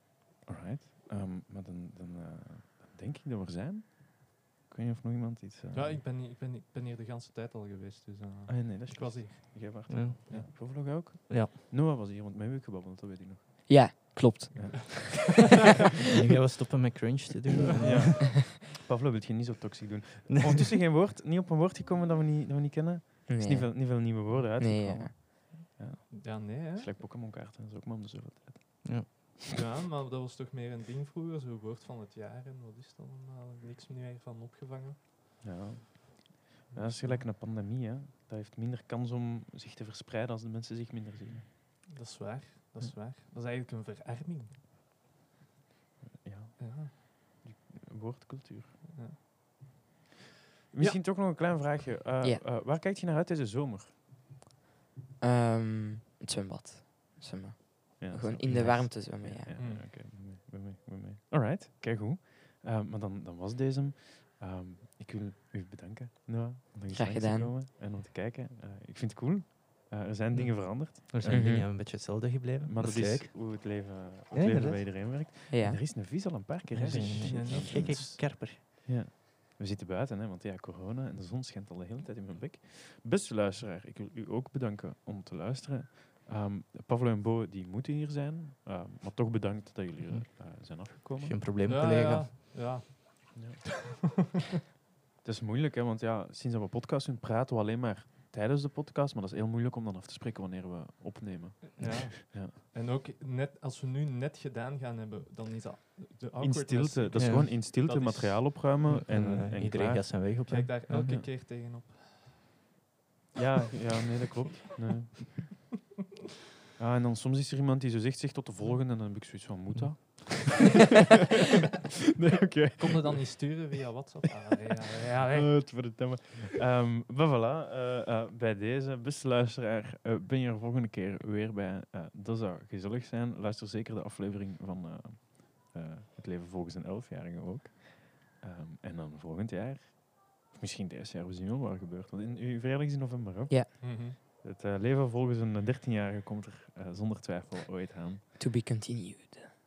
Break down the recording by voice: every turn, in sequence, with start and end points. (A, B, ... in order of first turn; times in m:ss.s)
0:00.4-0:06.0 A
0:05.7-0:10.5 B
0:08.5-0:14.0 A
0:09.9-0:11.5 C
0:13.7-0:15.2 D
0:14.5-0:15.5 A
0:14.5-0:15.2 B
0:16.1-0:18.3 C
0:17.8-0:29.3 A
0:23.3-0:25.3 D
0:26.1-0:26.9 B
0:28.8-0:29.3 C
0:29.5-0:35.0 B
0:35.4-0:41.5 A
0:36.7-0:37.2 B
0:41.9-0:44.6 B
0:46.0-0:48.9 A
0:46.6-0:46.9 B
0:50.7-0:53.9 A
0:55.2-0:59.5 D
0:58.0-1:11.9 A
0:58.5-0:58.9 C
0:59.5-0:59.8 B
1:06.9-1:07.5 D
1:10.3-1:13.6 C
1:11.2-1:11.7 D
1:12.6-1:31.4 A
1:14.3-1:14.8 C
1:15.5-1:15.8 D
1:16.7-1:18.6 C
1:16.9-1:18.2 B
1:30.0-1:32.3 C
1:31.6-1:34.4 B
1:33.3-1:33.6 A
1:35.2-1:42.5 A
1:41.7-1:48.6 B
1:41.8-1:42.1 C
1:46.4-1:50.4 A
1:47.1-1:47.5 C
1:48.8-1:51.2 C
1:50.4-1:52.4 B
1:50.9-1:51.3 A
1:53.3-1:55.6 A
1:56.8-2:00.7 A
1:59.7-2:00.0 C
2:02.2-2:03.8 A
2:02.8-2:05.7 B
2:05.2-2:28.2 A
2:23.8-2:24.2 B
2:28.4-2:29.5 D